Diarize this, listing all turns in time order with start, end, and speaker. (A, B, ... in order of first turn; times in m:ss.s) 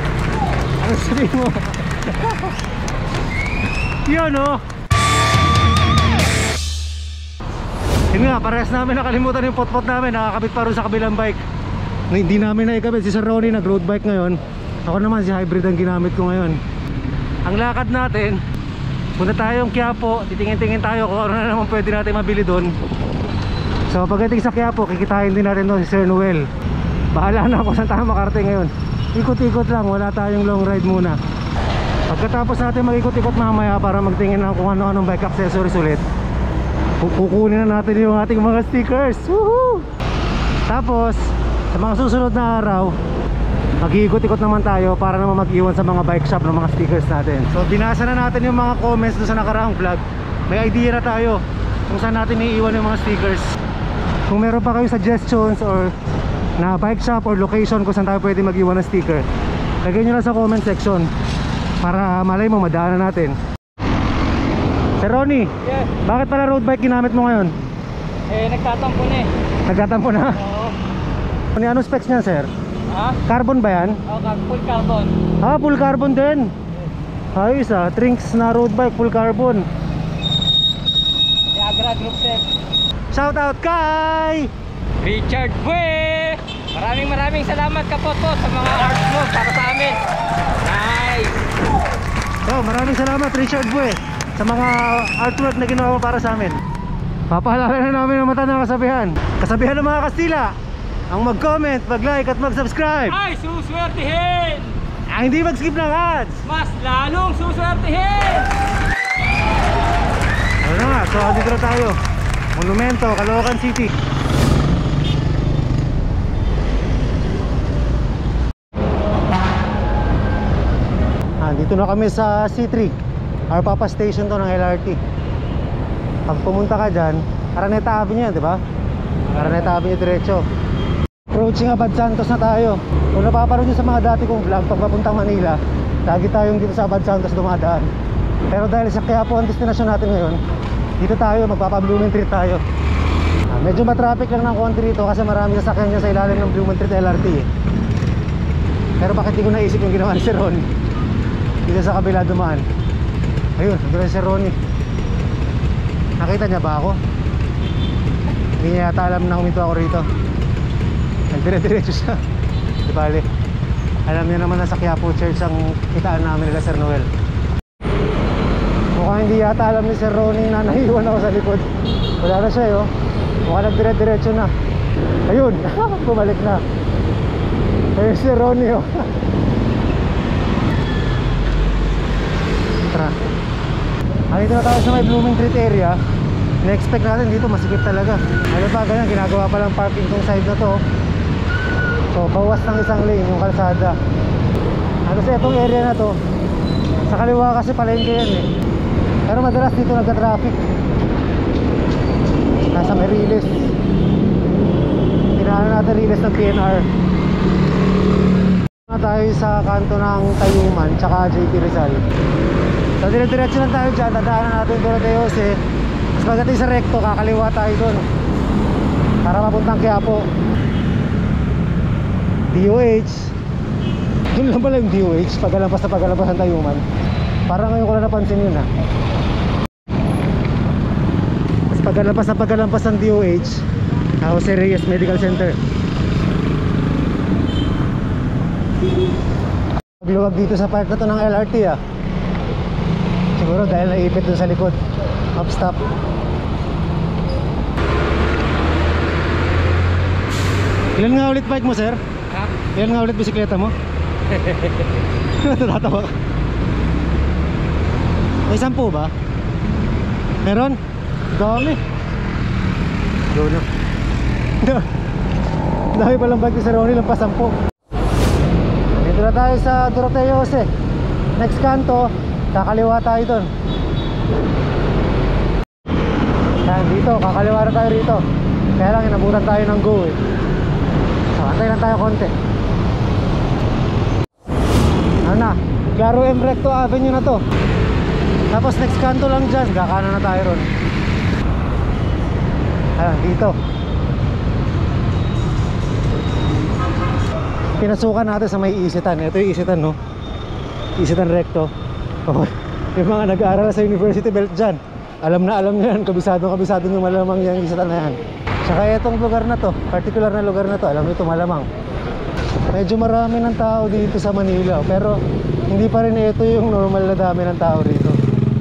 0:00.8-0:02.5 A
0:04.0-0:04.6 A
0:08.1-0:11.4 A
0:12.1-0:16.6 A
0:17.4-0:18.4 A
0:19.2-0:22.7 A
0:23.9-0:26.4 A
0:27.1-0:31.2 A
0:32.1-0:36.0 A
0:37.0-0:39.8 A
0:40.7-0:42.9 A
0:43.8-0:53.4 A
0:54.3-0:55.9 A
0:56.6-0:59.2 A
0:59.8-1:01.1 A
1:01.8-1:03.4 A
1:05.0-1:05.5 A
1:05.6-1:05.9 B
1:06.0-1:07.5 A
1:08.3-1:09.3 B
1:09.7-1:10.4 A
1:10.4-1:10.7 B
1:11.5-1:12.5 A
1:12.9-1:13.2 B
1:13.3-1:14.0 A
1:14.1-1:15.2 B
1:15.4-1:16.5 A
1:17.3-1:19.7 A
1:21.5-1:22.4 B
1:23.1-1:24.5 A
1:25.0-1:30.0 B
1:30.6-1:31.3 B
1:32.4-1:36.6 A
1:37.3-1:40.5 A
1:41.1-1:43.2 A
1:43.1-1:44.8 B
1:45.1-1:46.4 A
1:46.4-1:48.5 B
1:50.6-1:52.0 A
1:52.5-1:53.9 A
2:01.4-2:02.9 A
2:03.5-2:05.0 A
2:06.3-2:08.6 A
2:09.3-2:10.4 A
2:11.3-2:17.9 A
2:18.5-2:20.4 A
2:21.0-2:22.6 A
2:23.5-2:27.5 A
2:29.0-2:30.6 A
2:31.6-2:32.6 A
2:33.6-2:34.6 A
2:36.2-2:37.0 A
2:38.6-2:40.1 A
2:41.3-2:42.2 A
2:42.8-2:43.2 A
2:44.1-2:47.1 A
2:48.9-2:52.9 A
2:53.5-2:54.5 A
2:55.3-2:56.6 A
2:58.0-2:59.0 A
3:04.3-3:06.0 A
3:06.6-3:10.8 A
3:12.1-3:14.0 A
3:15.0-3:16.2 A
3:17.1-3:18.4 A
3:19.3-3:20.6 A
3:22.7-3:23.7 A
3:25.4-3:26.8 A
3:28.9-3:32.0 A
3:33.0-3:35.6 A
3:36.2-3:38.0 A
3:39.2-3:40.2 A
3:42.5-3:43.3 A
3:44.3-3:46.8 A
3:47.5-3:48.6 A
3:51.7-3:53.6 A
3:54.2-3:55.6 A
4:00.0-4:01.8 A
4:03.4-4:04.8 A
4:05.3-4:05.8 A
4:11.0-4:12.0 A
4:12.7-4:13.7 A
4:14.3-4:14.8 B
4:15.4-4:16.1 A
4:18.5-4:19.1 A
4:20.4-4:20.8 A
4:21.3-4:21.8 A
4:23.3-4:23.7 A
4:24.6-4:24.9 A
4:25.9-4:27.5 A
4:28.9-4:30.7 A
4:31.4-4:33.5 A
4:36.6-4:38.2 A
4:38.8-4:40.2 A
4:41.3-4:42.3 A
4:45.2-4:47.4 A
4:48.5-4:50.7 A
4:53.0-4:53.5 A
4:57.8-5:00.0 A
5:01.0-5:01.7 A
5:02.2-5:11.7 A
5:12.7-5:15.2 A
5:15.7-5:18.2 A